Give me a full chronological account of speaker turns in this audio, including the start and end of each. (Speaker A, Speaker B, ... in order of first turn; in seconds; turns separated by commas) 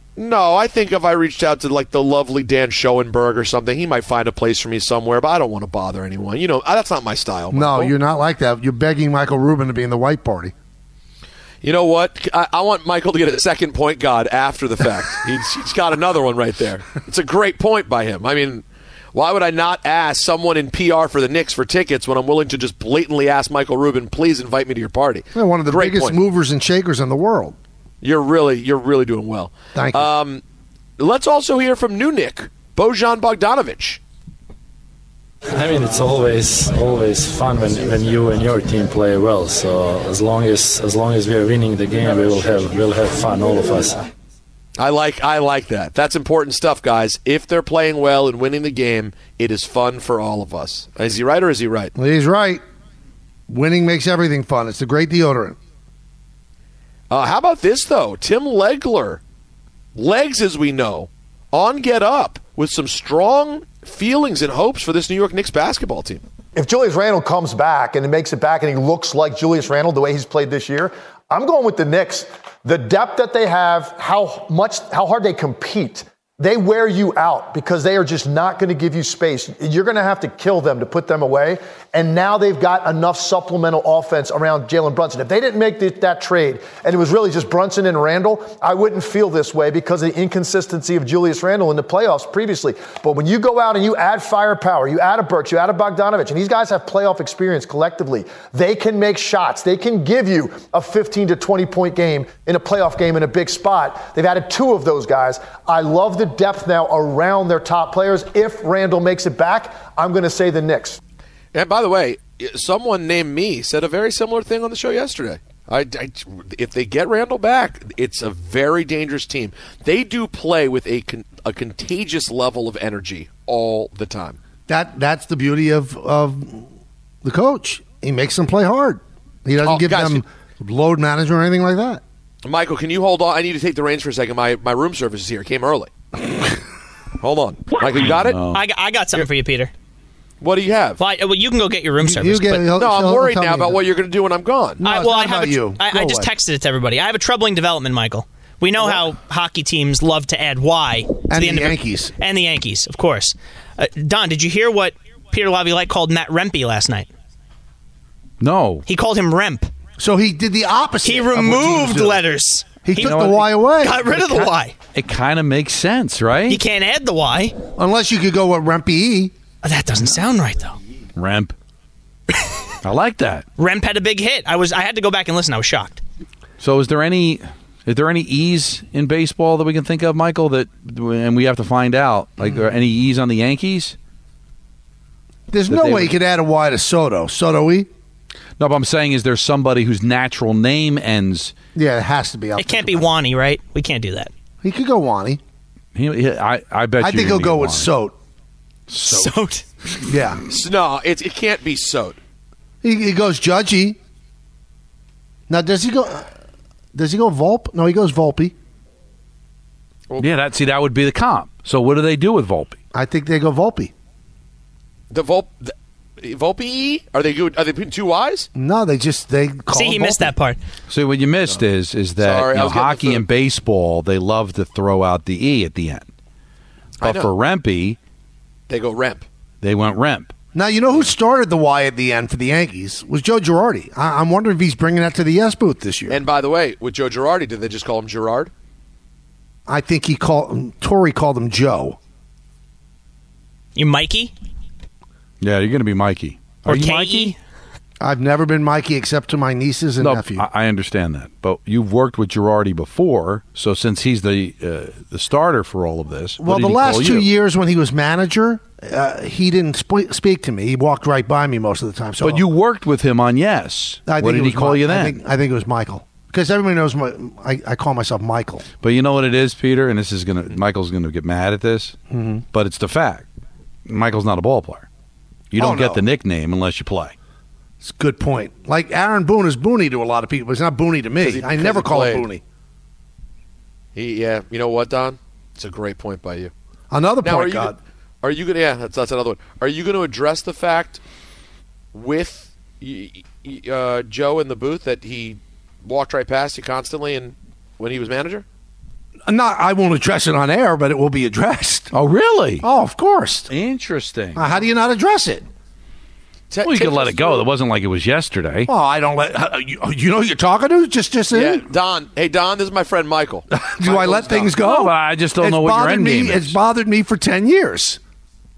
Speaker A: 0.1-7.9, Speaker B: 7.5-10.5, Speaker A: 11.6-26.2, Speaker B: 25.3-27.6, Speaker A: 28.0-30.4, Speaker B: 29.7-30.1, Speaker A: 31.0-34.0, Speaker C: 35.5-44.0, Speaker A: 44.8-51.9, Speaker B: 51.9-52.6, Speaker B: 53.5-55.5, Speaker A: 57.1-59.2, Speaker A: 59.9-66.2, Speaker D: 66.5-111.0, Speaker A: 111.5-124.4, Speaker B: 124.7-126.6, Speaker B: 127.2-132.0, Speaker A: 129.6-130.2, Speaker A: 132.4-135.9, Speaker A: 137.2-138.4, Speaker E: 138.1-138.6, Speaker F: 138.5-139.7, Speaker A: 140.4-141.0, Speaker F: 141.0-142.7, Speaker B: 142.0-143.9, Speaker A: 142.8-144.9, Speaker B: 144.8-146.3, Speaker F: 144.8-157.1, Speaker A: 148.8-149.0, Speaker B: 151.3-152.1, Speaker E: 158.4-158.8, Speaker F: 158.8-159.7, Speaker B: 160.0-162.2, Speaker F: 161.0-164.8, Speaker B: 162.8-164.1, Speaker E: 163.0-163.3, Speaker E: 164.9-166.6, Speaker F: 166.5-167.6, Speaker B: 167.7-169.3, Speaker F: 169.6-170.8, Speaker E: 171.2-171.5, Speaker E: 172.8-173.4, Speaker F: 173.6-176.0, Speaker E: 176.6-183.9, Speaker B: 185.5-187.9, Speaker E: 185.7-186.1, Speaker E: 188.6-191.5, Speaker B: 191.7-193.1, Speaker F: 192.6-194.3, Speaker B: 194.6-195.4, Speaker E: 195.9-197.9, Speaker B: 197.0-198.1, Speaker E: 198.9-199.3, Speaker F: 199.0-199.6, Speaker B: 200.1-200.4, Speaker A: 200.5-202.2, Speaker B: 202.8-204.0, Speaker B: 205.5-206.2, Speaker B: 206.9-208.5, Speaker E: 210.2-212.8, Speaker B: 212.9-213.9, Speaker A: 215.1-218.5, Speaker B: 218.5-220.3, Speaker F: 219.7-220.6, Speaker E: 220.9-226.1, Speaker A: 222.2-223.2, Speaker A: 227.0-227.3, Speaker E: 227.0-228.0, Speaker A: 228.7-229.2, Speaker E: 229.6-230.3, Speaker B: 230.5-236.2, Speaker A: 236.1-238.5, Speaker B: 239.7-242.0, Speaker F: 243.7-244.3, Speaker E: 245.4-247.3, Speaker F: 246.6-247.4, Speaker B: 248.0-250.5, Speaker E: 250.0-257.3, Speaker B: 256.4-262.5, Speaker E: 262.2-265.2, Speaker B: 264.1-268.6, Speaker E: 268.8-272.0, Speaker B: 272.1-272.4, Speaker E: 272.5-273.3, Speaker E: 273.9-274.9, Speaker E: 275.5-277.1, Speaker B: 275.6-276.0, Speaker B: 277.8-282.4, Speaker A: 281.2-282.3, Speaker A: 283.9-286.5, Speaker B: 286.9-287.8, Speaker A: 287.2-291.0, Speaker A: 291.9-298.4, Speaker B: 299.3-301.9, Speaker E: 301.9-302.6, Speaker B: 302.6-303.5, Speaker E: 303.5-304.5, Speaker B: 304.3-305.4, Speaker A: 306.5-307.5, Speaker E: 306.6-308.7, Speaker B: 308.7-311.6, Speaker A: 311.3-314.6, Speaker B: 313.5-318.0, Speaker E: 314.6-316.6